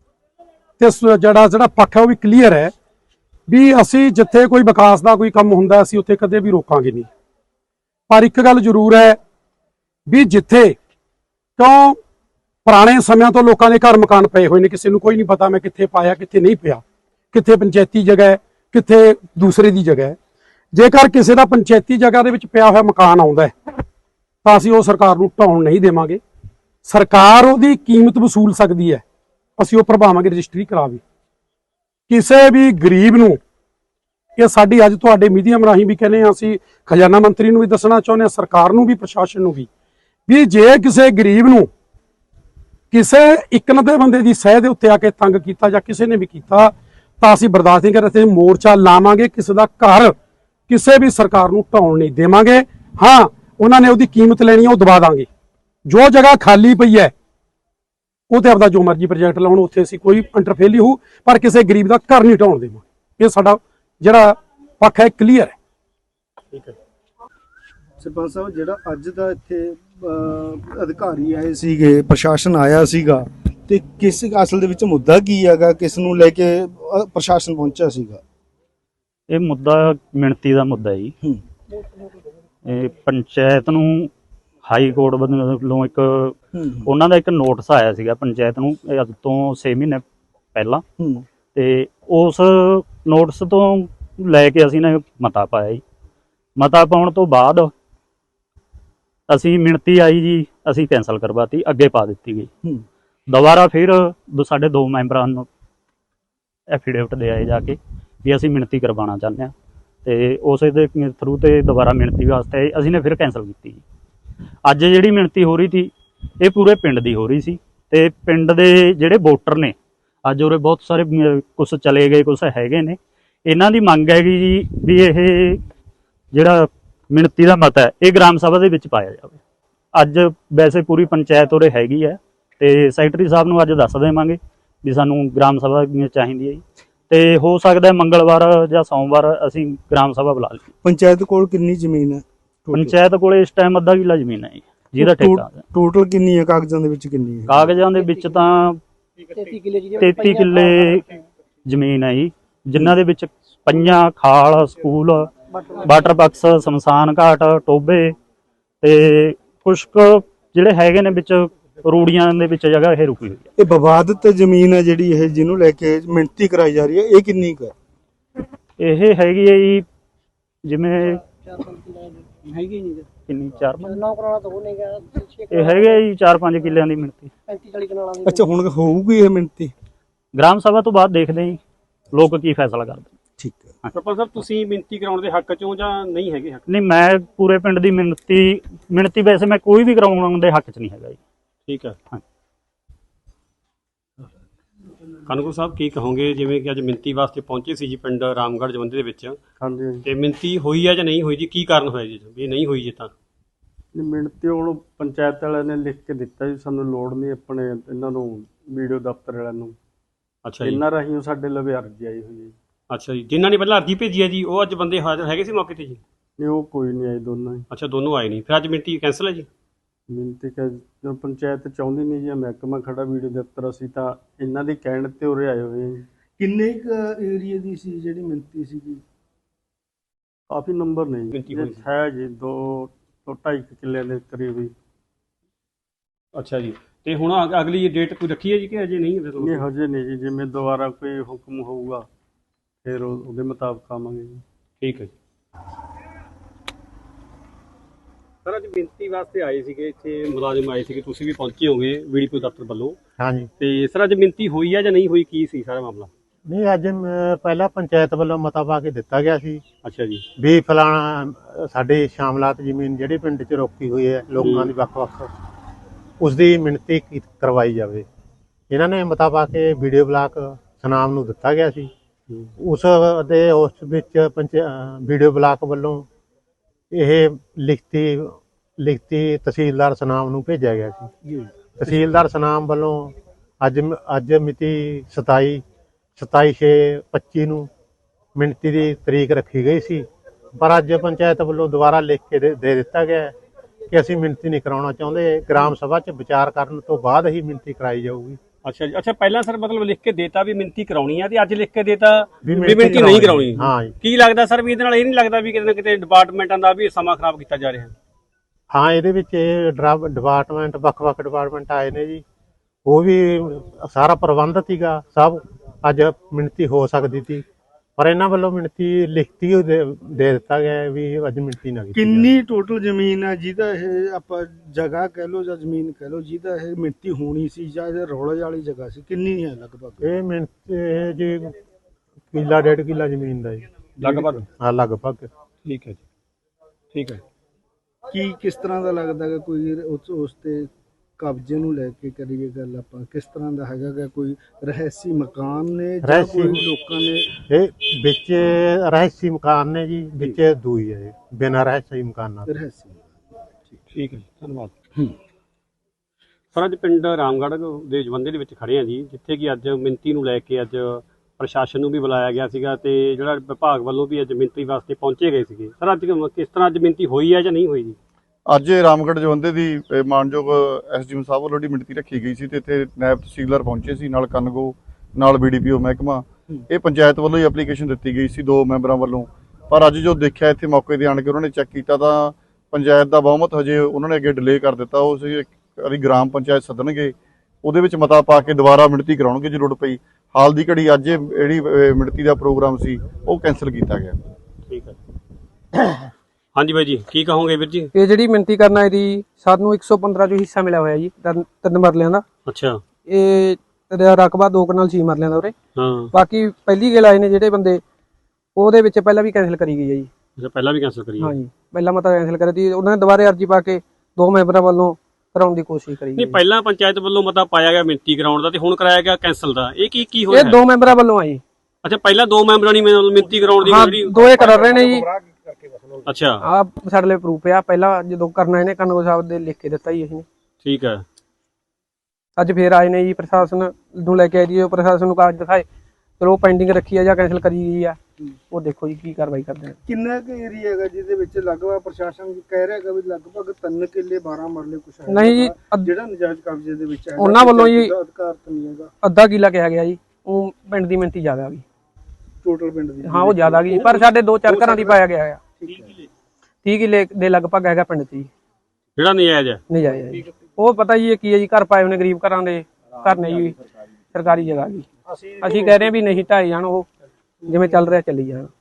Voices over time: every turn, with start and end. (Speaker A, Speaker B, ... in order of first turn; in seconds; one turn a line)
Speaker A: 0.8-2.7
Speaker A: 3.5-7.1
Speaker A: 8.1-9.2
Speaker A: 10.1-10.8
Speaker A: 11.6-12.0
Speaker A: 12.7-20.2
Speaker A: 20.7-23.5
Speaker A: 24.4-26.2
Speaker A: 26.9-29.0
Speaker A: 29.6-31.0
Speaker A: 32.1-33.4
Speaker A: 34.4-39.7
Speaker A: 40.3-41.7
Speaker A: 42.9-50.1
Speaker A: 50.7-55.3
Speaker A: 55.9-57.1
Speaker A: 58.3-65.5
Speaker B: 68.0-78.2
Speaker C: 79.3-81.1
Speaker C: 82.7-84.1
Speaker C: 84.7-90.0
Speaker B: 86.5-86.9
Speaker C: 90.5-90.8
Speaker B: 91.0-91.3
Speaker C: 91.5-95.8
Speaker C: 96.6-97.7
Speaker C: 99.3-102.5
Speaker C: 103.3-105.5
Speaker C: 106.7-109.5
Speaker C: 110.0-113.8
Speaker C: 114.7-119.8
Speaker C: 120.3-125.6
Speaker C: 126.3-129.4
Speaker C: 129.9-140.7
Speaker B: 140.8-143.0
Speaker C: 142.7-145.6
Speaker B: 145.0-147.8
Speaker C: 147.5-148.8
Speaker D: 149.3-151.1
Speaker C: 150.0-151.0
Speaker C: 151.7-155.3
Speaker D: 155.5-156.1
Speaker C: 155.8-158.2
Speaker C: 158.8-163.5
Speaker B: 163.6-167.7
Speaker C: 168.8-169.8
Speaker C: 170.7-171.2
Speaker D: 171.2-173.0
Speaker C: 173.3-174.0
Speaker D: 173.8-176.0
Speaker C: 175.5-177.3
Speaker D: 177.5-178.4
Speaker B: 178.2-179.7
Speaker C: 180.3-181.6
Speaker C: 182.1-183.1
Speaker B: 183.4-183.7
Speaker E: 183.9-186.6
Speaker C: 186.7-191.2
Speaker E: 191.7-192.0
Speaker E: 195.3-199.4
Speaker F: 199.6-200.0
Speaker E: 200.1-203.1
Speaker F: 203.9-209.8
Speaker E: 210.4-210.8
Speaker F: 210.7-212.6
Speaker E: 212.9-216.0
Speaker F: 216.4-217.6
Speaker E: 217.7-219.5
Speaker F: 220.1-226.1
Speaker B: 226.4-229.0
Speaker F: 230.5-234.7
Speaker E: 231.3-231.9
Speaker E: 236.4-239.7
Speaker F: 239.4-242.1
Speaker F: 242.8-244.4
Speaker E: 244.8-245.1
Speaker E: 248.4-253.0
Speaker G: 253.2-253.5
Speaker E: 253.6-256.1
Speaker G: 256.5-259.6
Speaker E: 259.9-260.2
Speaker G: 260.4-265.3
Speaker E: 264.4-264.7
Speaker G: 266.2-268.1
Speaker G: 268.7-271.9
Speaker G: 272.6-276.1
Speaker G: 276.9-281.1
Speaker B: 281.3-282.0
Speaker G: 281.8-285.6
Speaker G: 286.2-287.7
Speaker G: 288.4-290.1
Speaker G: 290.6-293.3
Speaker G: 293.9-298.4
Speaker E: 298.6-307.9
Speaker G: 302.4-303.9
Speaker G: 308.7-312.2
Speaker G: 312.9-317.4
Speaker G: 318.0-322.3
Speaker B: 321.9-330.1
Speaker G: 330.0-331.6
Speaker G: 332.3-335.3
Speaker E: 334.0-334.4
Speaker E: 335.6-336.0
Speaker E: 336.9-337.2
Speaker B: 338.1-347.3
Speaker G: 346.0-346.6
Speaker G: 347.4-352.5
Speaker B: 352.5-353.8
Speaker E: 353.9-354.7
Speaker E: 356.5-368.0
Speaker H: 368.5-394.2
Speaker E: 394.7-395.0
Speaker E: 396.6-397.9
Speaker I: 397.9-402.2
Speaker E: 402.5-402.8
Speaker I: 403.1-405.5
Speaker E: 405.8-406.1
Speaker I: 406.1-407.8
Speaker I: 408.6-410.1
Speaker E: 410.4-411.4
Speaker I: 411.2-416.4
Speaker E: 416.2-420.7
Speaker I: 420.3-421.4
Speaker E: 421.8-424.4
Speaker I: 423.6-425.1
Speaker E: 426.1-426.4
Speaker I: 426.4-430.3
Speaker E: 430.6-431.0
Speaker I: 432.4-435.7
Speaker I: 436.2-438.0
Speaker I: 438.5-439.8
Speaker B: 439.9-448.9
Speaker I: 445.1-445.9
Speaker I: 447.2-447.9
Speaker I: 449.0-451.6
Speaker B: 452.4-455.0
Speaker I: 453.0-455.4
Speaker B: 455.6-455.9
Speaker I: 456.6-458.3
Speaker E: 459.0-459.6
Speaker I: 459.7-463.6
Speaker I: 464.1-464.9
Speaker I: 465.4-466.9
Speaker I: 467.4-468.5